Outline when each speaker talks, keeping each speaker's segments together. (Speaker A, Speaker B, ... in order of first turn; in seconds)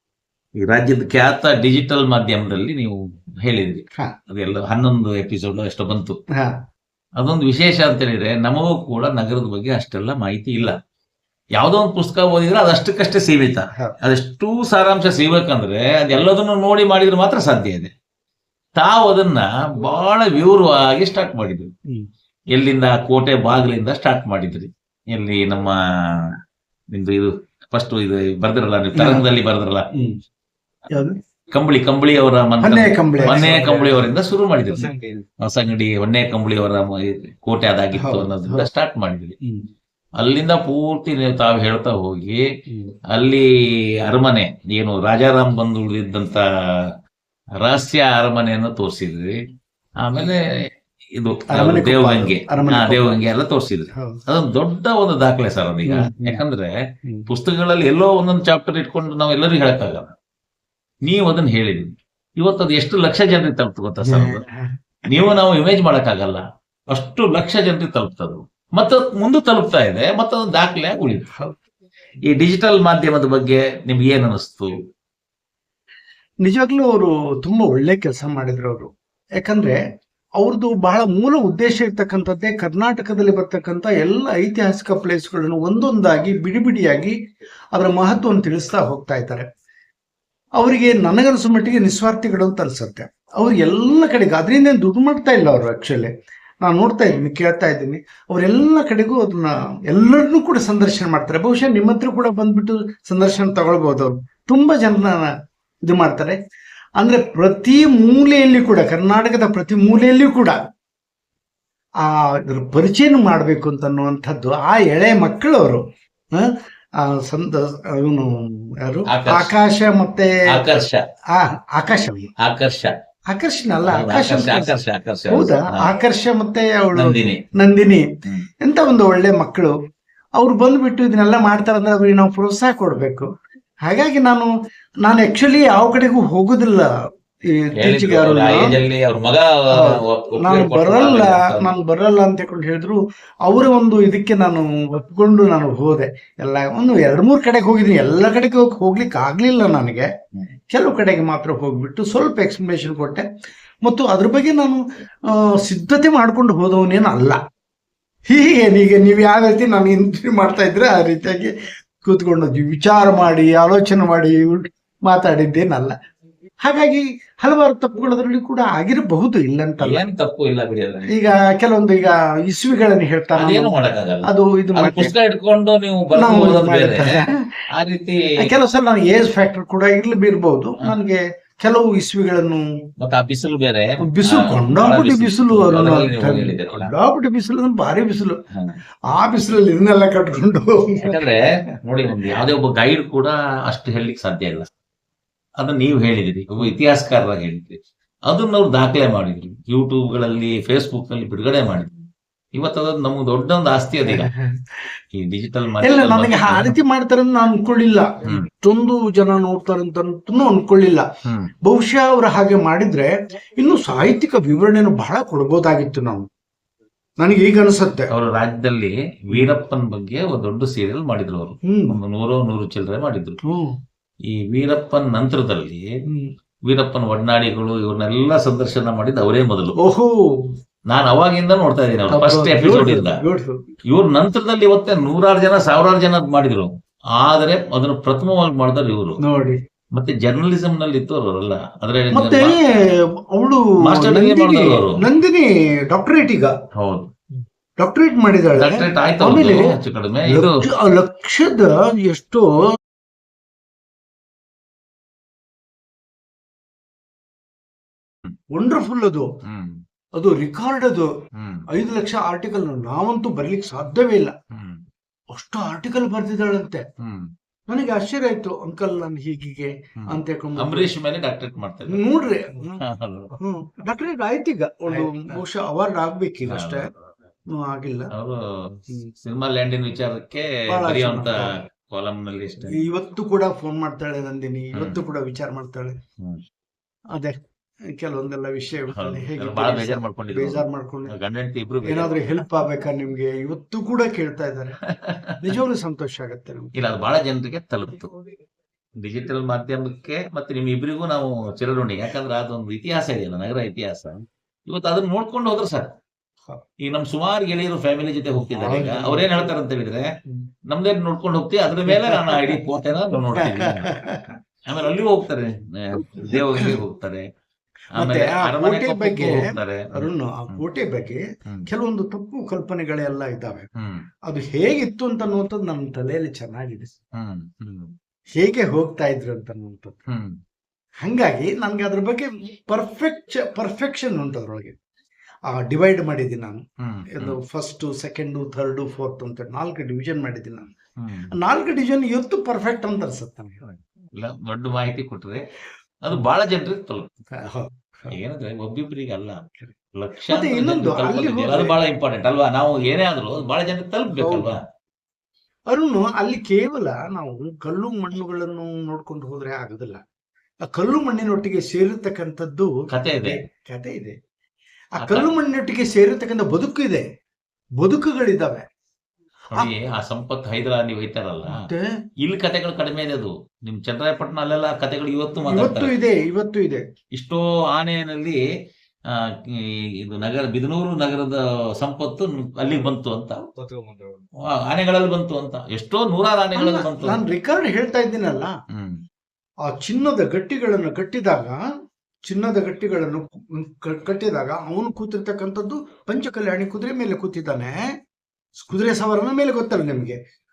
Speaker A: 0.6-6.2, 7.2-10.8, 11.6-17.9, 18.8-21.7, 22.5-26.4, 26.9-29.9, 31.5-34.9, 35.4-39.3, 40.2-42.4, 43.1-43.4, 44.1-46.9, 47.6-49.4, 50.0-50.4, 51.1-56.7, 57.3-60.1, 61.0-64.4, 65.1-71.3, 72.2-74.7, 119.1-119.5, 120.5-121.0, 122.4-122.9, 123.9-126.0, 126.9-127.4, 137.8-141.7, 169.8-171.2, 173.3-178.2, 183.0-186.9, 191.0-194.7, 195.6-197.8, 198.3-201.9, 202.5-204.3, 205.2-206.7, 218.1-223.4, 224.3-225.9, 226.7-229.8, 230.9-233.2, 233.9-239.2, 239.9-242.9, 243.8-245.0, 246.8-247.1, 248.6-250.6, 259.4-259.8, 261.4-261.7, 264.5-264.8, 267.0-267.3, 270.0-272.0, 272.8-273.3, 274.9-275.3, 276.4-276.9, 278.1-282.8, 284.7-285.0, 288.9-292.4, 294.9-295.5, 296.7-298.1, 299.0-305.9, 306.8-310.1, 310.7-314.0, 314.6-317.2, 317.9-320.6, 323.8-324.1, 327.2-327.9, 336.8-337.4, 341.0-341.3, 343.6-345.4, 346.0-347.1, 348.1-354.6, 362.9-363.4, 365.0-365.3, 369.5-371.6, 372.2-375.9, 377.1-378.4, 379.1-383.4, 384.5-387.2, 388.7-389.0
Speaker B: 28.9-29.2, 30.9-31.2, 32.6-34.1, 34.7-35.2, 38.0-38.7, 39.4-39.6, 42.7-42.9, 51.5-53.2, 53.9-54.2, 55.8-56.4, 64.0-65.3, 76.4-79.8, 80.4-87.1, 87.7-89.5, 90.6-96.1, 96.6-105.3, 105.8-106.3, 107.0-110.6, 112.0-115.8, 116.4-120.7, 121.3-122.3, 123.3-128.1, 128.6-129.7, 130.4-133.3, 133.8-134.5, 135.0-136.9, 137.5-138.8, 139.7-150.1, 150.7-153.2, 153.8-157.4, 158.3-161.5, 162.0-165.9, 166.6-170.1, 171.1-173.7, 174.2-175.1, 176.1-177.4, 178.4-182.7, 184.0-188.4, 189.1-191.2, 204.0-204.7, 205.8-211.1, 211.6-216.2, 217.2-218.1, 221.7-222.0, 223.4-223.7, 229.8-230.5, 232.1-233.6, 239.2-239.6, 242.1-246.5, 247.8-252.5, 258.5-259.2, 260.2-261.1, 261.7-264.3, 265.3-266.8, 267.7-270.9, 271.9-272.8, 273.4-276.9, 277.5-278.1, 280.7-281.6, 282.7-286.0, 287.9-291.1, 291.8-294.8, 295.4-296.7, 308.5-309.5, 311.8-312.6, 313.4-314.2, 315.9-316.8, 317.9-323.7, 324.2-326.9, 328.4-330.0, 331.0-334.8, 335.5-336.6, 337.1-340.7, 341.4-343.6, 347.4-348.2, 350.3-351.8, 354.1-354.5, 355.7-360.0, 360.7-364.1, 365.0-367.0, 367.8-368.6, 371.5-371.9, 375.5-376.8, 383.6-384.2, 386.5-388.5, 389.7-391.6, 392.2-397.7, 398.6-400.2